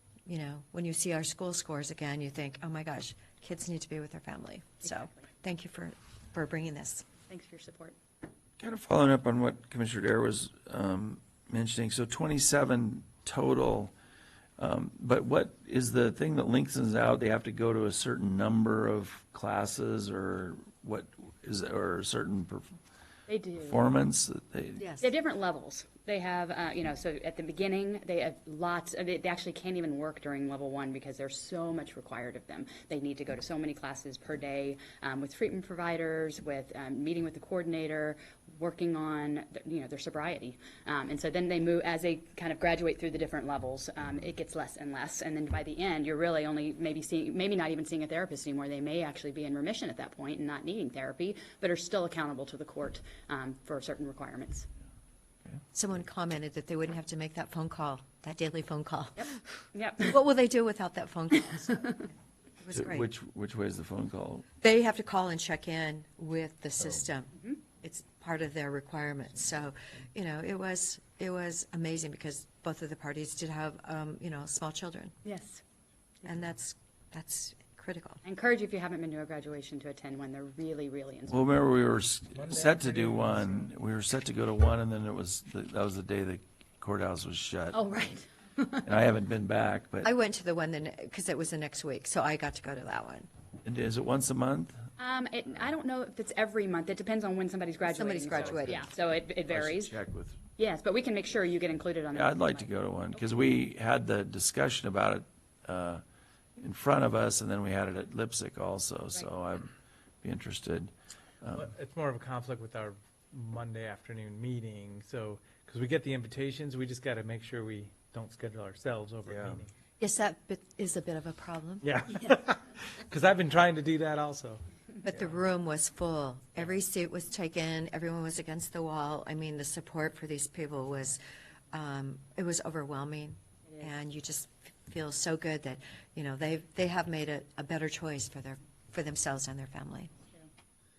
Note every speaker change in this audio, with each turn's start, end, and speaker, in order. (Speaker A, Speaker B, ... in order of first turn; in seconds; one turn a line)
Speaker A: 0.2-7.0
Speaker B: 7.3-7.9
Speaker C: 8.6-13.9
Speaker C: 14.6-22.7
Speaker B: 23.3-23.8
Speaker C: 23.6-24.9
Speaker A: 24.8-25.1
Speaker B: 25.0-54.7
Speaker A: 55.7-59.4
Speaker B: 59.2-60.2
Speaker A: 60.0-63.0
Speaker C: 62.7-64.5
Speaker A: 64.6-75.1
Speaker B: 75.2-75.6
Speaker A: 76.2-78.2
Speaker B: 78.2-81.4
Speaker C: 81.3-87.8
Speaker D: 82.4-83.5
Speaker B: 87.7-88.9
Speaker C: 88.8-90.1
Speaker A: 90.0-93.3
Speaker C: 93.6-94.9
Speaker B: 95.0-99.9
Speaker A: 97.9-98.9
Speaker C: 99.5-100.4
Speaker B: 100.6-102.7
Speaker C: 102.1-106.0
Speaker C: 106.6-109.7
Speaker C: 110.2-111.7
Speaker D: 111.5-119.7
Speaker C: 119.2-119.6
Speaker A: 120.0-121.9
Speaker D: 121.8-124.6
Speaker A: 125.0-131.2
Speaker A: 131.7-140.1